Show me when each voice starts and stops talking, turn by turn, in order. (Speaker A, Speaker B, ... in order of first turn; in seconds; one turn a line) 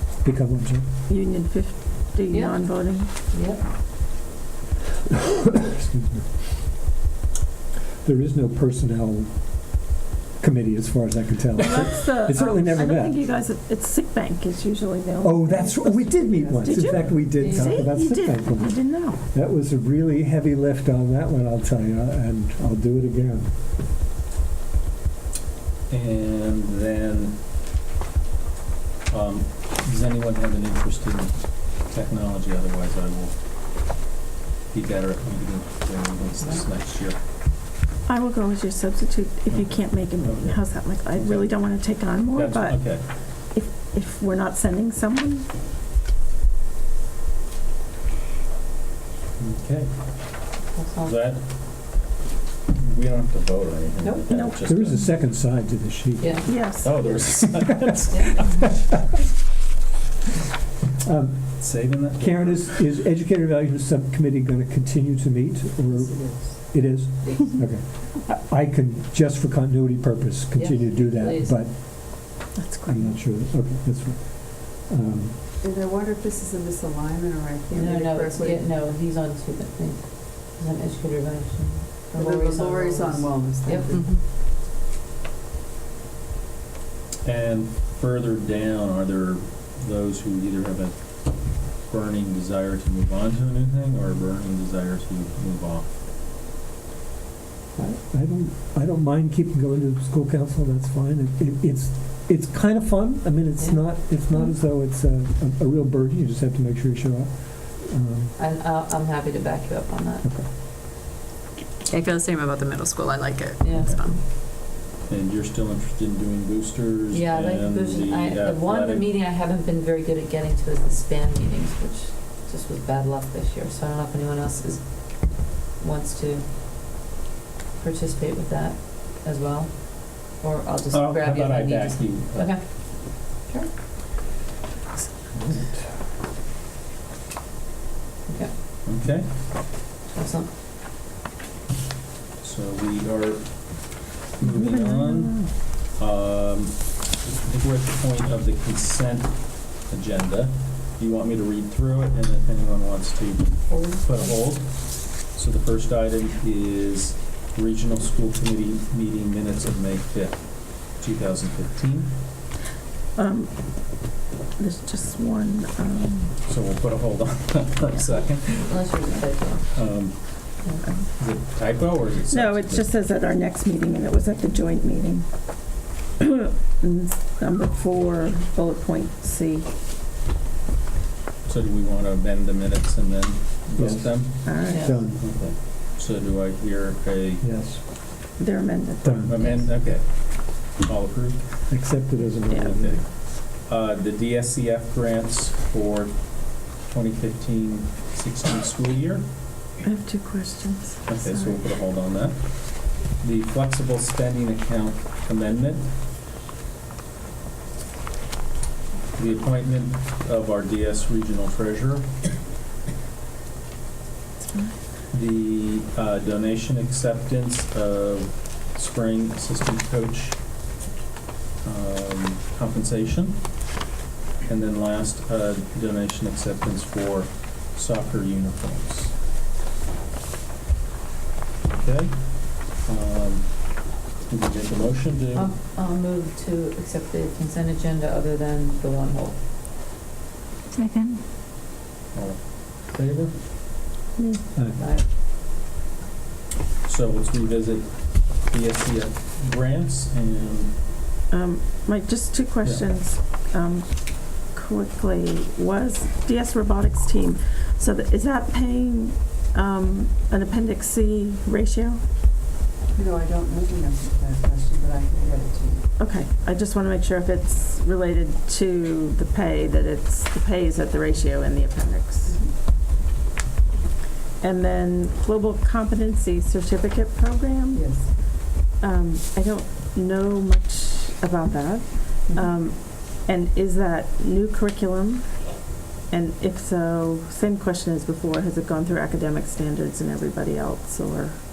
Speaker A: 0.2-0.8
Speaker B: 1.1-3.1
Speaker C: 2.3-3.6
Speaker A: 5.5-6.3
Speaker A: 8.0-9.7
Speaker A: 10.4-13.2
Speaker B: 11.6-19.2
Speaker A: 15.2-23.5
Speaker D: 15.8-17.5
Speaker C: 17.4-17.9
Speaker E: 25.9-27.4
Speaker E: 29.1-33.4
Speaker E: 34.7-37.2
Speaker B: 38.1-45.5
Speaker E: 39.5-43.0
Speaker E: 49.4-49.9
Speaker C: 50.7-51.2
Speaker E: 51.0-51.4
Speaker E: 52.7-55.0
Speaker B: 54.3-54.9
Speaker A: 54.6-56.6
Speaker C: 56.2-56.5
Speaker B: 56.5-57.1
Speaker E: 56.8-58.8
Speaker A: 61.0-75.4
Speaker E: 61.6-62.8
Speaker D: 65.9-66.7
Speaker C: 70.5-71.6
Speaker B: 72.5-73.2
Speaker D: 75.6-78.6
Speaker C: 77.7-84.1
Speaker D: 82.1-84.1
Speaker E: 87.2-95.9
Speaker A: 97.7-108.3
Speaker C: 103.6-104.0
Speaker C: 108.4-110.2
Speaker A: 110.2-110.5
Speaker F: 111.8-114.2
Speaker C: 113.6-114.1
Speaker E: 113.8-119.1
Speaker C: 117.1-126.5
Speaker C: 127.8-133.7
Speaker E: 130.9-132.6
Speaker A: 135.4-135.8
Speaker C: 138.2-138.5
Speaker E: 138.8-139.3
Speaker C: 140.1-140.5
Speaker E: 142.4-162.1
Speaker B: 144.4-145.5
Speaker C: 153.7-154.4
Speaker B: 163.2-166.3
Speaker E: 166.4-168.7
Speaker C: 168.5-169.8
Speaker E: 169.7-170.6
Speaker E: 171.1-172.9
Speaker B: 172.3-175.3
Speaker B: 176.2-179.7
Speaker E: 181.4-187.4
Speaker A: 183.8-185.2
Speaker B: 184.4-185.0
Speaker C: 184.7-185.0
Speaker A: 187.4-187.8
Speaker B: 188.4-189.7
Speaker A: 189.0-189.4
Speaker E: 189.2-191.7
Speaker A: 191.7-193.1
Speaker E: 192.6-199.2
Speaker B: 199.8-201.6
Speaker E: 201.1-205.9
Speaker E: 209.2-212.1
Speaker E: 215.1-220.4
Speaker E: 221.6-223.5
Speaker E: 224.4-229.1
Speaker E: 231.6-235.5
Speaker C: 235.3-239.4
Speaker E: 242.1-243.3
Speaker B: 244.2-244.4
Speaker C: 244.7-245.0
Speaker E: 246.8-250.7
Speaker B: 251.3-262.0
Speaker D: 262.9-265.9
Speaker B: 266.0-272.4
Speaker D: 272.2-272.5
Speaker B: 274.4-277.9
Speaker D: 277.7-278.2
Speaker B: 278.4-291.4